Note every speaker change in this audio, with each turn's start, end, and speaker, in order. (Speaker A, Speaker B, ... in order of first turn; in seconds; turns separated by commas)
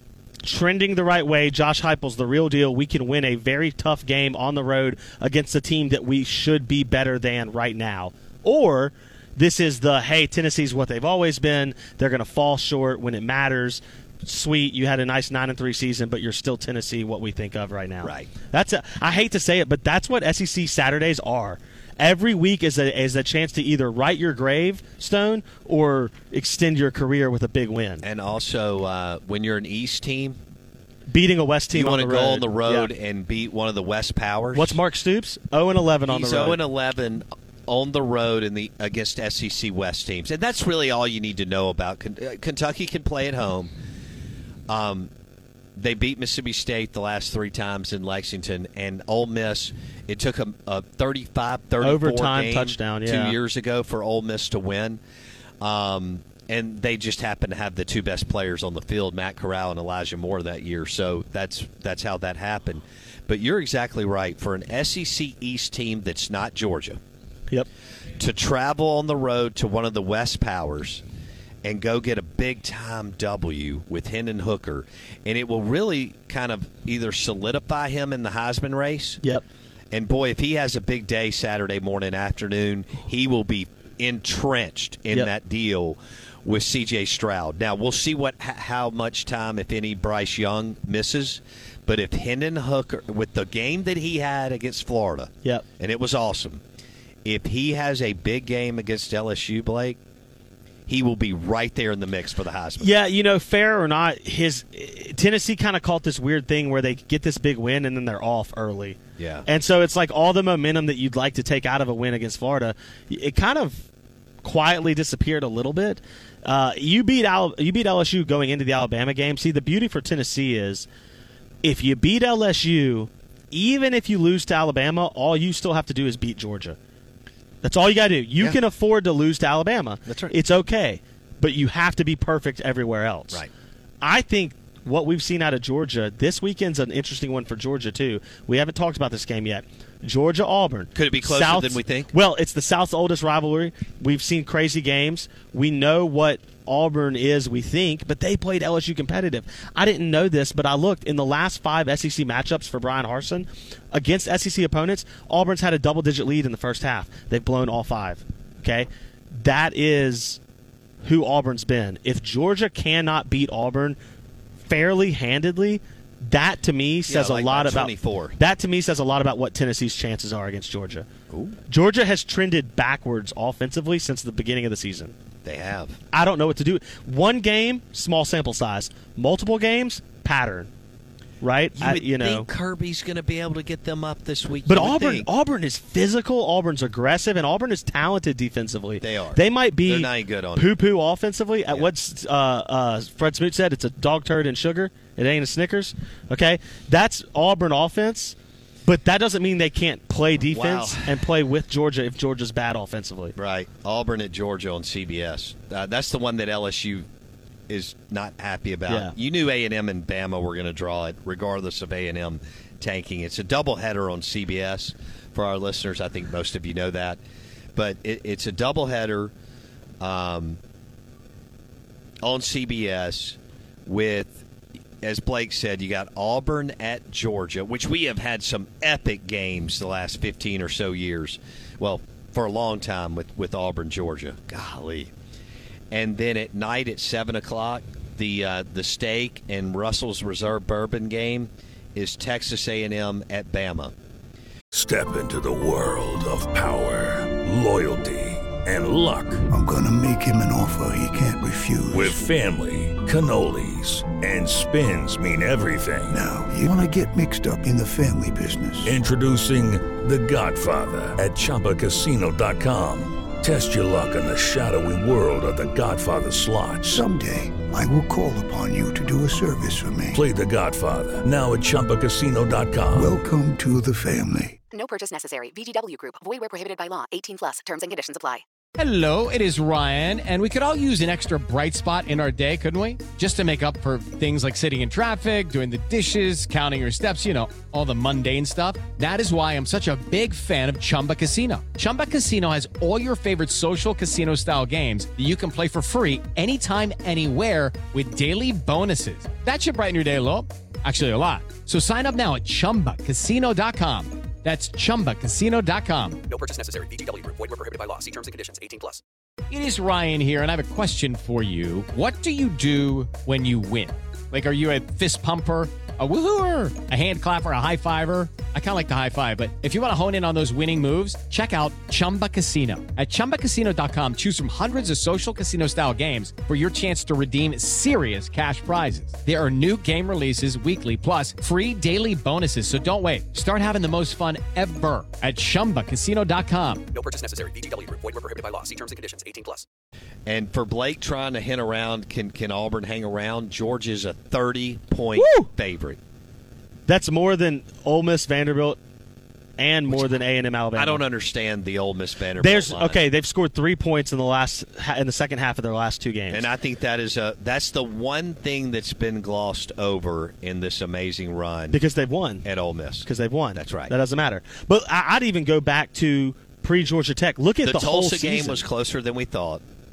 Speaker A: 0.4-28.0, Speaker B: 18.0-18.3, Speaker B: 28.0-30.4, Speaker A: 31.1-32.9, Speaker B: 31.7-34.8, Speaker A: 34.5-36.6, Speaker B: 36.1-43.7, Speaker B: 44.7-45.1, Speaker B: 45.8-55.0, Speaker A: 51.8-53.4, Speaker B: 55.6-67.0, Speaker B: 68.2-71.0, Speaker B: 71.6-79.2, Speaker B: 79.9-96.6, Speaker B: 97.2-100.0, Speaker B: 100.9-102.9, Speaker A: 102.8-113.9, Speaker B: 109.2-109.5, Speaker A: 114.4-120.9, Speaker A: 121.6-126.8, Speaker A: 127.6-133.4, Speaker B: 130.1-130.3, Speaker A: 134.0-160.4, Speaker B: 140.9-142.1, Speaker A: 161.0-164.0, Speaker A: 164.7-171.1, Speaker B: 167.1-168.4, Speaker B: 171.3-171.6, Speaker A: 171.7-175.1, Speaker B: 175.4-176.0, Speaker A: 176.1-180.7, Speaker A: 181.4-182.5, Speaker B: 181.8-185.3, Speaker A: 184.7-203.3, Speaker B: 189.0-190.7, Speaker B: 200.5-201.2, Speaker B: 203.3-207.1, Speaker B: 207.7-217.2, Speaker A: 208.9-209.1, Speaker B: 217.7-219.3, Speaker B: 220.0-220.6, Speaker B: 222.2-224.4, Speaker B: 225.0-235.1, Speaker B: 235.9-243.9, Speaker C: 244.7-249.4, Speaker D: 249.5-252.2, Speaker C: 251.9-256.2, Speaker D: 256.1-259.0, Speaker C: 258.8-267.0, Speaker D: 266.8-270.2, Speaker C: 270.1-273.2, Speaker D: 272.9-274.6, Speaker E: 274.7-278.4, Speaker F: 278.8-306.2, Speaker G: 306.3-309.0, Speaker F: 309.5-336.8, Speaker G: 336.9-339.6, Speaker B: 340.3-346.0, Speaker A: 345.1-345.5, Speaker A: 346.9-348.8, Speaker A: 349.6-351.0, Speaker B: 349.9-350.2, Speaker B: 350.8-353.0, Speaker A: 352.4-356.5, Speaker B: 356.3-361.8, Speaker A: 361.7-362.4, Speaker B: 362.4-363.9, Speaker A: 363.0-368.6, Speaker B: 367.6-369.6